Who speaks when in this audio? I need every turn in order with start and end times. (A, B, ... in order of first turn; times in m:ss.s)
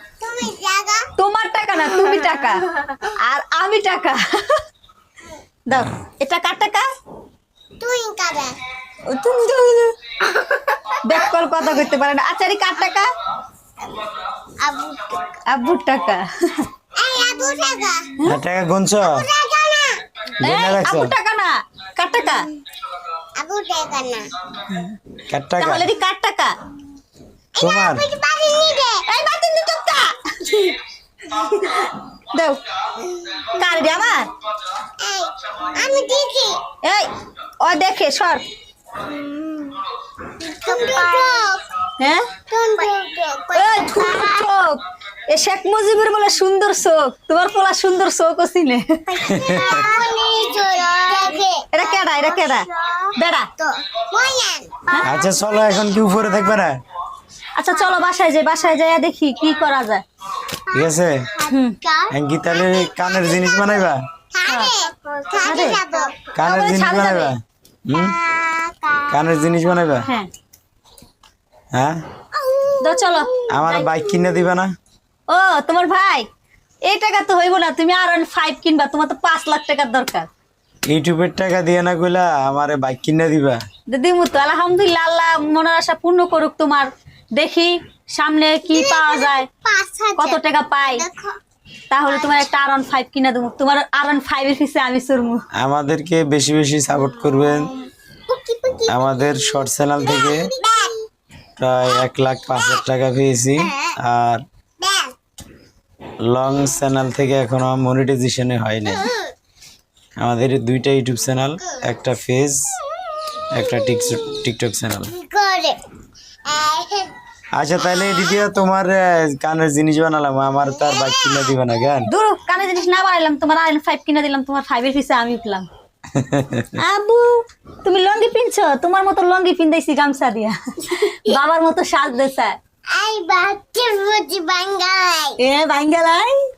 0:00.2-0:01.1 A
0:01.2-0:04.6 B
0:05.7-0:06.9 B
0:07.8-0:08.6 A
0:09.1-0:10.0 B
0:11.0-0:13.1 B
0:14.6-0:15.4 A
0:15.5-0:16.7 B
0:17.0-0:18.1 A
0:18.2-0:19.3 C
0:19.0-0:20.0 A
0:20.4-0:21.1 C
0:20.4-0:22.5 B
0:23.4-0:24.3 A
0:24.7-0:25.0 B
0:25.3-0:25.9 C
0:25.6-0:26.6 B
0:27.6-0:29.0 A
0:27.6-0:28.1 C
0:29.1-0:30.8 B
0:31.3-0:32.6 B
0:33.0-0:33.6 A
0:33.5-0:34.3 B
0:35.0-0:36.6 A
0:36.8-0:38.4 B
0:39.1-0:39.7 A
0:40.4-0:41.6 A
0:42.0-0:42.3 B
0:42.5-0:44.5 A
0:43.6-0:48.9 B
0:49.1-0:56.2 A
0:49.3-0:49.9 C
0:51.7-0:53.5 B
0:54.9-0:55.2 B
0:55.0-0:56.8 C
0:57.6-1:00.0 B
1:00.6-1:06.3 A
1:00.7-1:01.3 C
1:01.5-1:01.8 B
1:02.1-1:04.0 C
1:04.5-1:04.7 B
1:05.4-1:05.8 B
1:06.3-1:08.2 C
1:06.4-1:07.3 B
1:07.9-1:09.2 A
1:09.1-1:10.1 C
1:11.7-1:12.0 C
1:12.4-1:14.2 A
1:12.8-1:13.9 B
1:13.5-1:14.7 C
1:15.3-1:16.3 B
1:16.8-1:20.3 B
1:20.9-1:23.6 C
1:23.9-1:29.5 B
1:28.7-1:31.4 A
1:30.2-1:31.0 B
1:31.9-1:35.4 B
1:32.0-1:32.5 A
1:35.6-1:37.7 C
1:37.3-1:37.7 A
1:38.3-1:41.1 A
1:38.9-1:40.5 C
1:41.6-1:44.4 C
1:44.8-1:45.1 A
1:46.3-1:49.1 C
1:48.9-1:49.3 A
1:50.2-1:52.8 C
1:53.5-1:55.1 C
1:55.1-1:55.8 A
1:56.5-1:57.1 A
1:57.6-2:02.1 C
1:57.9-1:58.4 A
2:00.8-2:01.5 A
2:02.1-2:05.7 B
2:06.1-2:06.8 C
2:06.8-2:12.6 B
2:12.9-2:15.4 A
2:15.4-2:16.4 B